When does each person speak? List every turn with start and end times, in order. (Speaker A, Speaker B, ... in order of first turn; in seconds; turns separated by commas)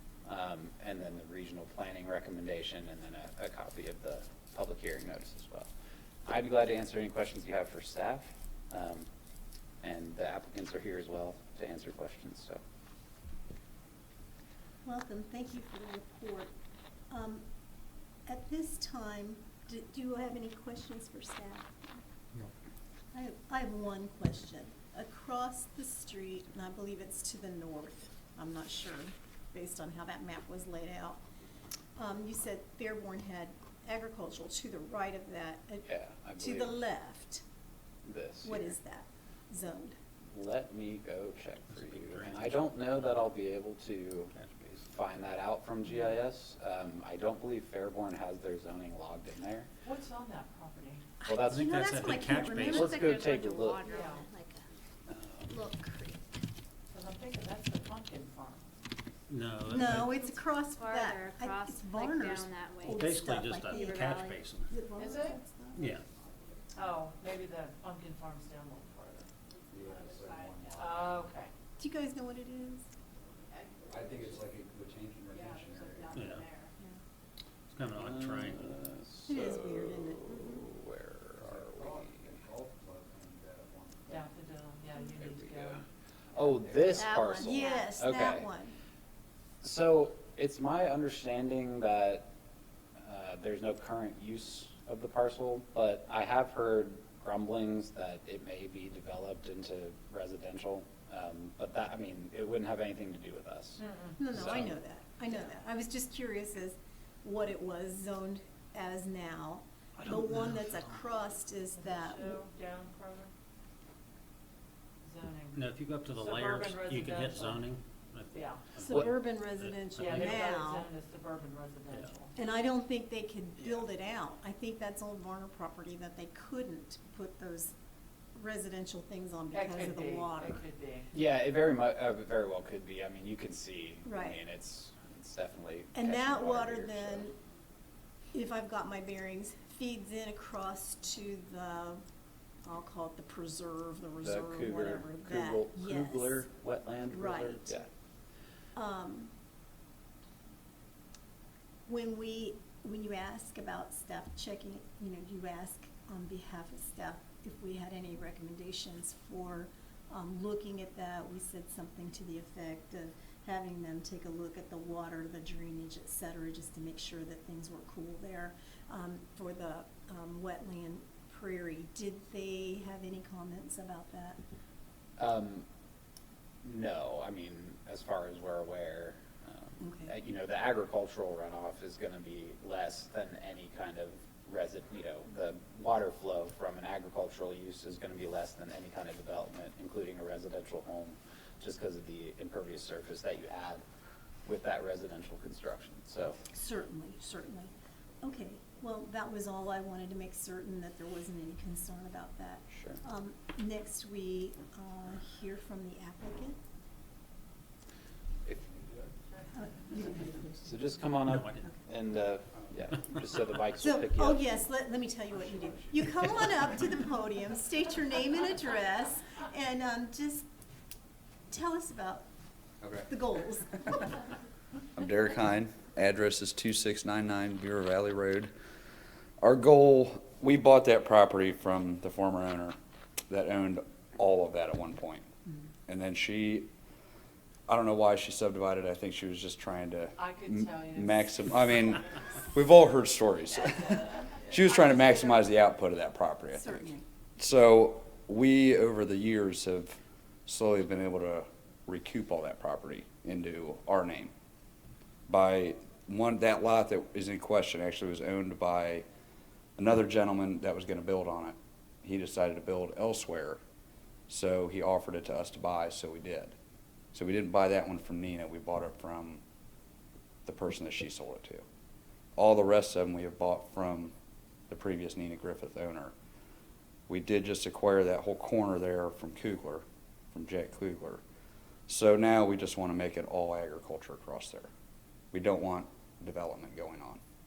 Speaker A: 0.2-5.7, Speaker A: 6.2-9.1, Speaker A: 9.8-12.6, Speaker B: 14.8-16.5, Speaker B: 17.1-17.4, Speaker B: 18.2-21.9, Speaker B: 23.1-31.2, Speaker B: 31.9-37.4, Speaker A: 35.9-36.8, Speaker A: 38.0-38.8, Speaker B: 38.4-40.0, Speaker A: 40.3-49.7, Speaker C: 41.8-42.5, Speaker D: 49.8-51.0, Speaker B: 51.2-53.0, Speaker A: 51.2-51.8, Speaker C: 51.4-53.1, Speaker A: 52.6-53.8, Speaker E: 52.9-54.6, Speaker D: 53.8-54.2, Speaker A: 55.1-55.8, Speaker E: 55.7-56.2, Speaker D: 56.9-58.7, Speaker C: 59.3-60.2, Speaker B: 59.7-66.7, Speaker E: 60.2-63.0, Speaker C: 62.8-64.7, Speaker D: 64.9-65.4, Speaker C: 65.7-66.0, Speaker D: 66.7-69.3, Speaker F: 69.7-71.2, Speaker D: 70.7-71.5, Speaker B: 71.8-72.8, Speaker F: 73.9-76.3, Speaker E: 75.8-76.6, Speaker C: 76.1-76.5, Speaker C: 77.7-78.8, Speaker A: 77.9-82.3, Speaker B: 79.3-80.7, Speaker F: 81.4-84.3, Speaker D: 84.1-85.8, Speaker A: 85.2-88.5, Speaker F: 86.3-87.5, Speaker B: 87.0-88.7, Speaker E: 87.5-87.8, Speaker A: 89.6-92.3, Speaker A: 93.0-104.7, Speaker D: 103.8-104.2, Speaker B: 104.2-112.4, Speaker C: 110.0-111.0, Speaker D: 111.8-113.3, Speaker D: 115.0-117.7, Speaker C: 115.5-120.3, Speaker D: 118.3-118.7, Speaker B: 118.8-120.9, Speaker D: 120.0-122.3, Speaker B: 122.3-127.7, Speaker B: 128.3-130.6, Speaker D: 129.5-131.1, Speaker A: 131.1-137.3, Speaker B: 134.0-134.4, Speaker B: 135.9-137.3, Speaker B: 138.3-142.0, Speaker B: 142.6-146.4, Speaker A: 144.2-147.9, Speaker B: 147.1-147.8, Speaker B: 148.7-149.3, Speaker B: 151.9-174.4, Speaker A: 175.2-175.7, Speaker A: 176.6-193.8, Speaker B: 179.8-180.1, Speaker A: 194.4-196.4, Speaker B: 196.5-206.6, Speaker A: 202.7-203.0, Speaker F: 208.5-209.1, Speaker B: 209.5-210.7, Speaker A: 210.6-214.5, Speaker C: 211.3-211.7, Speaker B: 213.8-220.5, Speaker F: 215.5-216.4, Speaker B: 221.5-222.2, Speaker F: 222.8-223.1, Speaker B: 223.1-224.2, Speaker F: 224.9-228.5, Speaker F: 229.4-232.8, Speaker F: 233.3-235.3, Speaker F: 235.9-236.7, Speaker F: 237.7-254.3, Speaker D: 240.2-241.4, Speaker B: 246.5-247.0, Speaker F: 255.3-259.1, Speaker F: 259.8-263.6, Speaker F: 264.3-266.5, Speaker F: 267.1-269.4, Speaker F: 270.4-271.6, Speaker F: 272.4-274.1, Speaker F: 274.7-276.1, Speaker F: 277.1-281.2, Speaker F: 281.9-284.7, Speaker F: 285.3-287.2